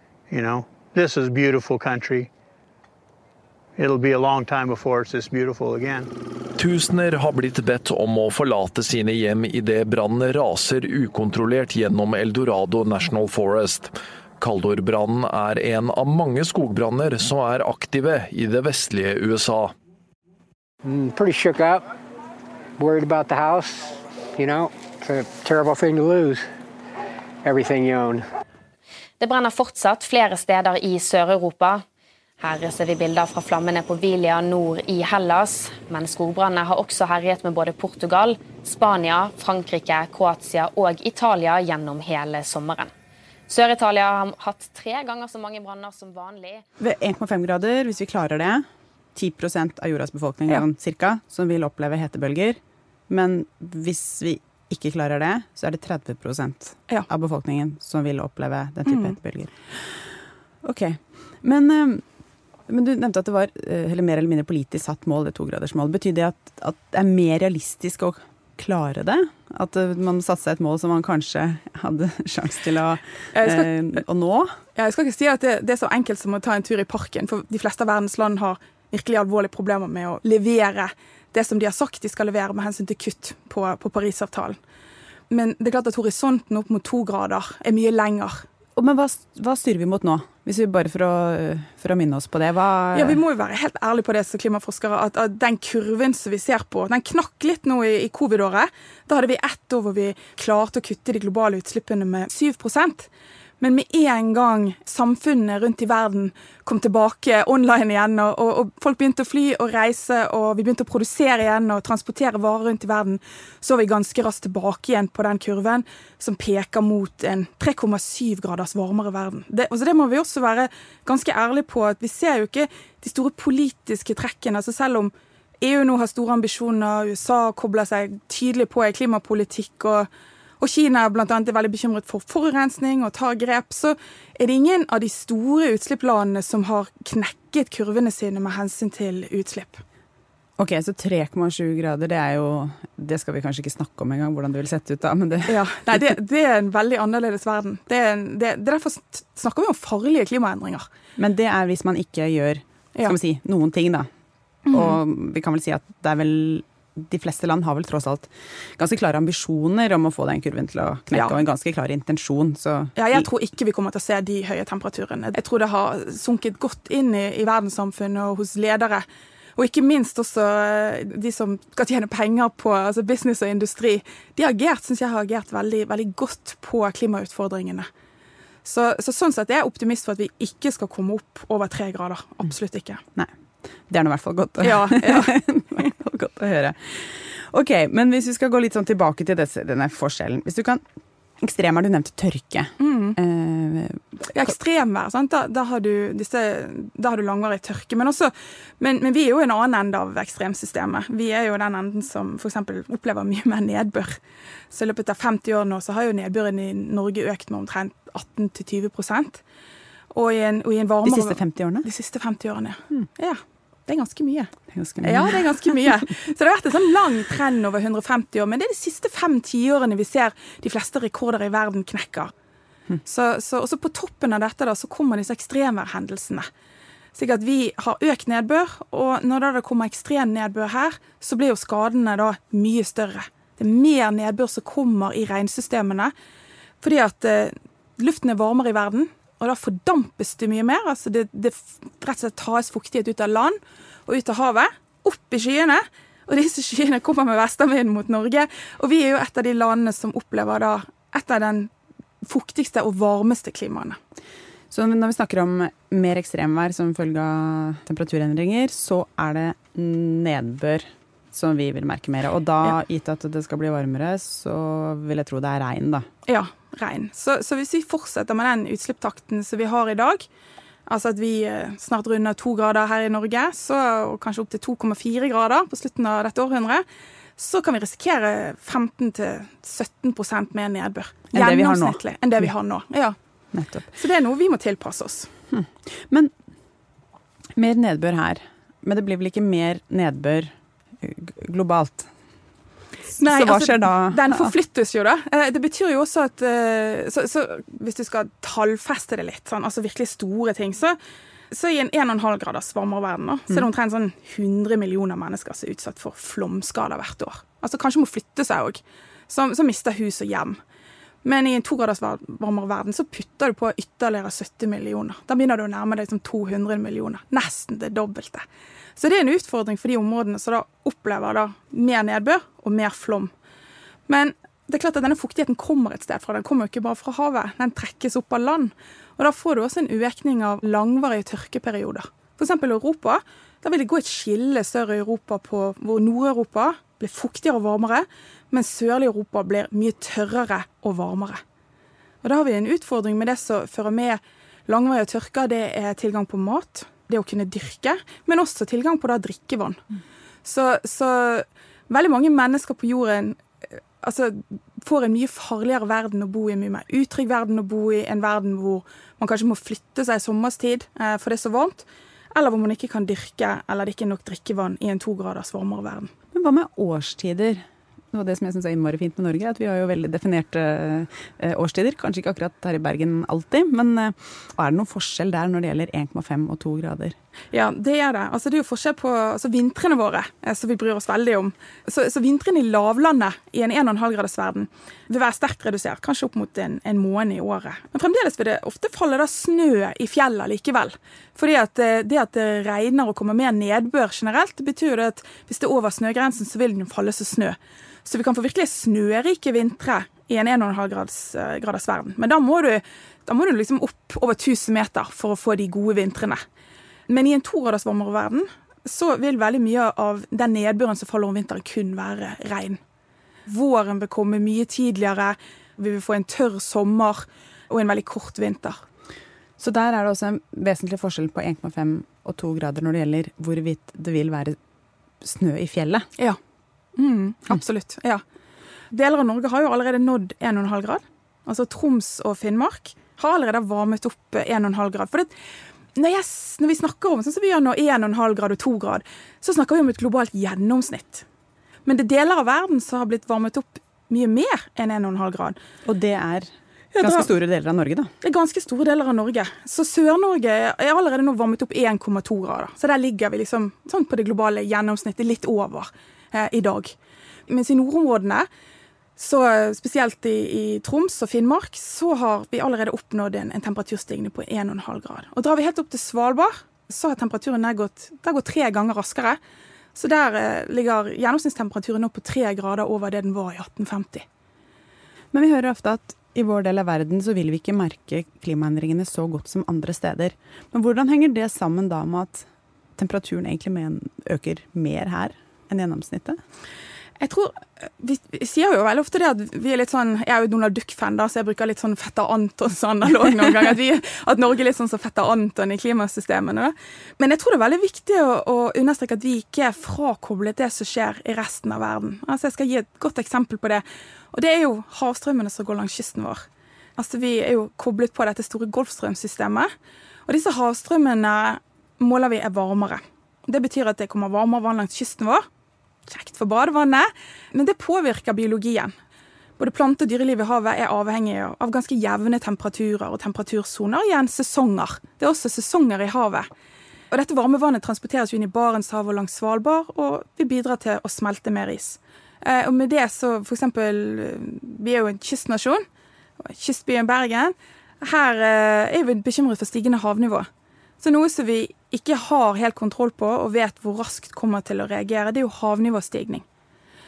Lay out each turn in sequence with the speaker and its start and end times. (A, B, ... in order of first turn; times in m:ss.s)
0:00.3-0:02.3 A
0:03.8-0:06.1 A
0:06.6-0:19.7 B
0:20.8-0:21.8 C
0:22.8-0:26.4 C
0:27.4-0:28.3 C
0:29.2-0:31.8 D
0:32.4-0:42.9 D
0:43.5-0:46.6 D
0:46.8-0:48.6 E
0:49.2-1:00.0 E
1:00.6-1:02.0 E
1:02.7-1:14.5 E
1:13.3-1:13.7 F
1:14.8-1:24.6 F
1:25.3-1:28.4 F
1:28.8-1:33.2 E
1:32.9-1:43.1 F
1:43.6-2:10.1 F
2:10.6-2:19.8 F
2:20.6-2:26.1 E
2:25.5-2:30.9 F
2:31.2-2:34.1 E
2:34.7-2:35.0 F
2:34.7-2:43.3 E
2:41.1-2:41.4 F
2:43.0-2:57.9 F
2:58.6-3:03.0 F
3:03.9-3:10.8 E
3:04.6-3:05.4 F
3:11.4-3:14.5 E
3:12.8-3:13.2 F
3:14.3-3:24.2 F
3:24.7-3:29.4 F
3:30.1-3:34.5 F
3:31.0-3:31.9 E
3:34.7-3:35.6 E
3:35.0-3:42.3 F
3:43.0-3:46.5 F
3:47.2-3:56.1 F
3:56.8-4:11.7 F
4:12.2-4:14.0 F
4:14.7-4:26.1 E
4:26.2-4:30.3 F
4:30.9-4:36.8 F
4:37.4-4:43.2 F
4:41.3-4:42.5 E
4:43.5-4:43.9 E
4:43.9-4:45.3 F
4:45.5-4:46.3 E
4:47.6-4:52.1 E
4:53.1-4:54.5 E
4:53.2-5:01.0 F
5:01.5-5:10.6 F
5:11.2-5:18.4 F
5:19.0-5:23.3 F
5:24.1-5:41.4 F
5:42.2-5:49.8 F
5:50.4-5:53.4 F
5:54.0-6:06.1 F
6:06.3-6:17.2 E
6:17.5-6:46.4 F
6:47.1-6:52.8 F
6:53.5-6:58.8 F
6:59.6-7:04.6 E
7:05.2-7:06.1 E
7:07.0-7:08.2 F
7:08.9-7:15.3 F
7:16.0-7:21.2 F
7:21.8-7:25.6 F
7:25.8-7:28.1 E
7:26.9-7:27.3 F
7:28.2-7:36.9 F
7:37.5-7:38.5 F
7:39.2-7:49.4 F
7:50.0-7:54.2 F
7:55.3-8:06.4 E
8:07.2-8:26.4 F
8:27.0-8:29.7 F
8:30.3-8:35.4 F
8:36.1-8:38.9 F
8:39.6-8:46.5 F
8:47.1-8:55.8 F
8:56.4-9:00.5 F
9:01.0-9:06.4 F